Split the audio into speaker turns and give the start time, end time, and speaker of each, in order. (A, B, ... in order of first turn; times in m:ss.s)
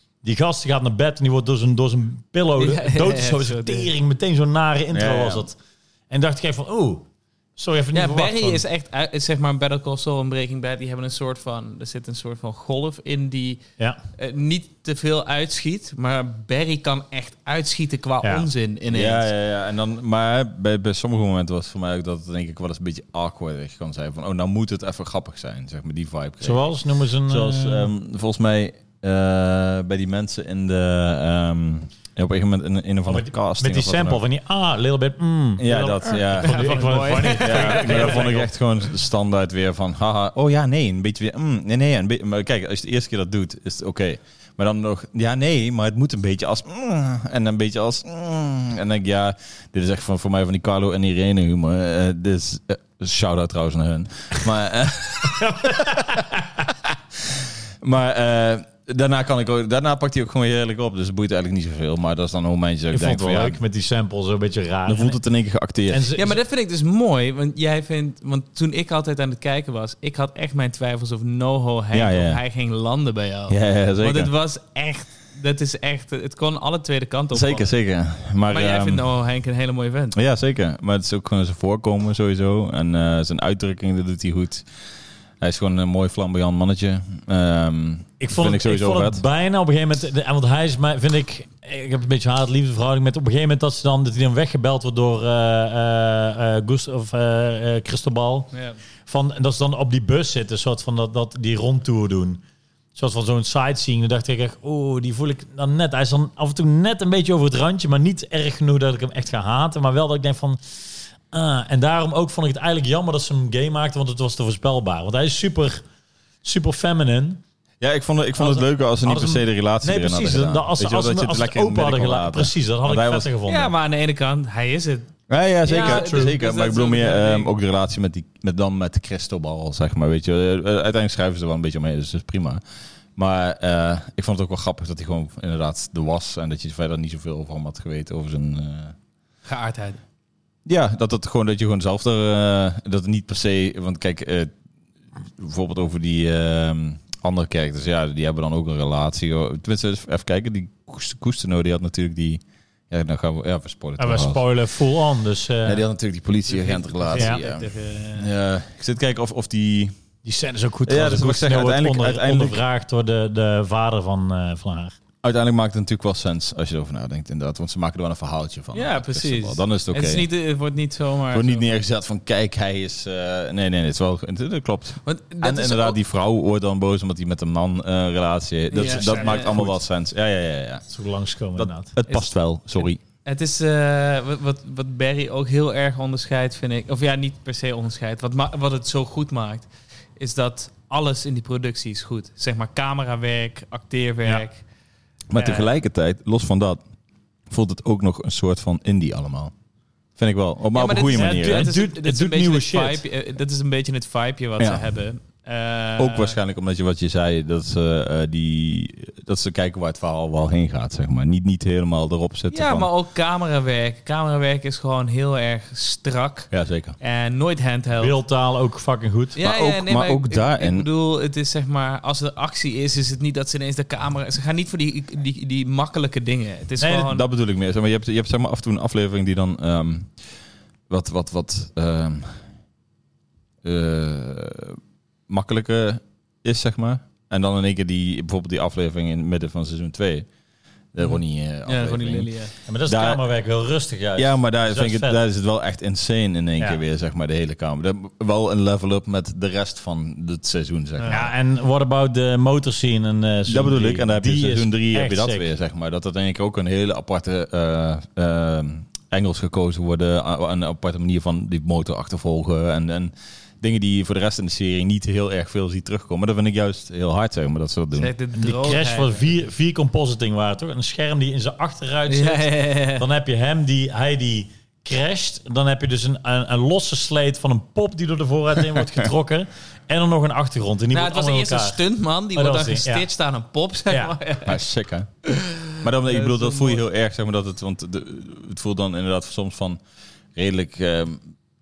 0:00.2-0:05.6 A
0:02.6-0:03.9 B
0:04.9-0:05.5 C
0:06.1-0:07.0 A
0:07.6-0:08.6 A
0:07.9-0:13.6 B
0:14.2-0:19.2 B
0:18.9-0:26.7 C
0:26.4-0:27.9 A
0:27.2-0:34.2 C
0:33.0-0:38.4 A
0:35.6-0:56.2 C
0:36.0-0:38.5 B
0:55.3-0:56.5 A
0:56.8-1:03.6 C
1:02.9-1:05.2 A
1:04.9-1:06.1 C
1:05.9-1:06.4 A
1:06.2-1:17.7 B
1:11.9-1:12.4 C
1:13.5-1:14.3 C
1:17.3-1:19.0 C
1:18.5-1:20.2 B
1:20.1-1:24.7 C
1:25.4-1:29.2 C
1:28.2-1:38.5 A
1:39.0-1:42.4 A
1:42.9-1:55.8 A
1:56.4-1:57.4 A
1:57.8-2:03.3 C
1:58.4-2:03.7 A
2:03.4-2:05.1 B
2:05.3-2:12.6 C
2:05.6-2:07.5 B
2:05.7-2:06.4 A
2:13.2-2:18.9 C
2:19.4-2:20.0 B
2:20.6-2:24.5 C
2:25.4-2:34.4 C
2:34.0-2:35.8 A
2:35.6-2:39.9 C
2:36.5-2:38.3 B
2:40.2-2:45.0 A
2:40.9-2:42.6 C
2:45.2-2:50.2 C
2:48.7-2:51.7 B
2:51.3-3:00.8 C
2:55.0-2:56.0 B
2:58.7-2:59.5 B
2:58.8-2:59.8 A
3:00.9-3:01.9 A
3:01.6-3:03.0 C
3:03.2-3:14.6 B
3:15.3-3:16.8 C
3:15.4-3:15.7 B
3:17.5-3:19.5 C
3:20.2-3:21.7 C
3:20.7-3:26.4 B
3:21.1-3:23.0 A
3:24.6-3:24.8 C
3:26.0-3:32.9 C
3:32.5-3:38.2 B
3:36.5-3:37.0 C
3:38.0-3:39.4 A
3:39.4-3:47.2 B
3:39.4-3:40.9 C
3:46.9-3:50.1 C
3:50.9-3:52.4 C
3:53.6-4:00.3 C
4:00.9-4:02.3 C
4:01.0-4:02.5 B
4:02.6-4:05.2 A
4:02.9-4:03.2 C
4:04.2-4:11.3 C
4:11.0-4:11.3 B
4:11.1-4:15.5 A
4:13.5-4:28.1 C
4:28.0-4:29.3 B
4:28.4-4:41.8 A
4:32.1-4:33.0 B
4:40.9-4:44.6 B
4:42.4-4:43.0 A
4:44.4-4:45.1 C
4:45.2-4:46.8 B
4:45.8-4:49.8 C
4:50.4-4:51.2 C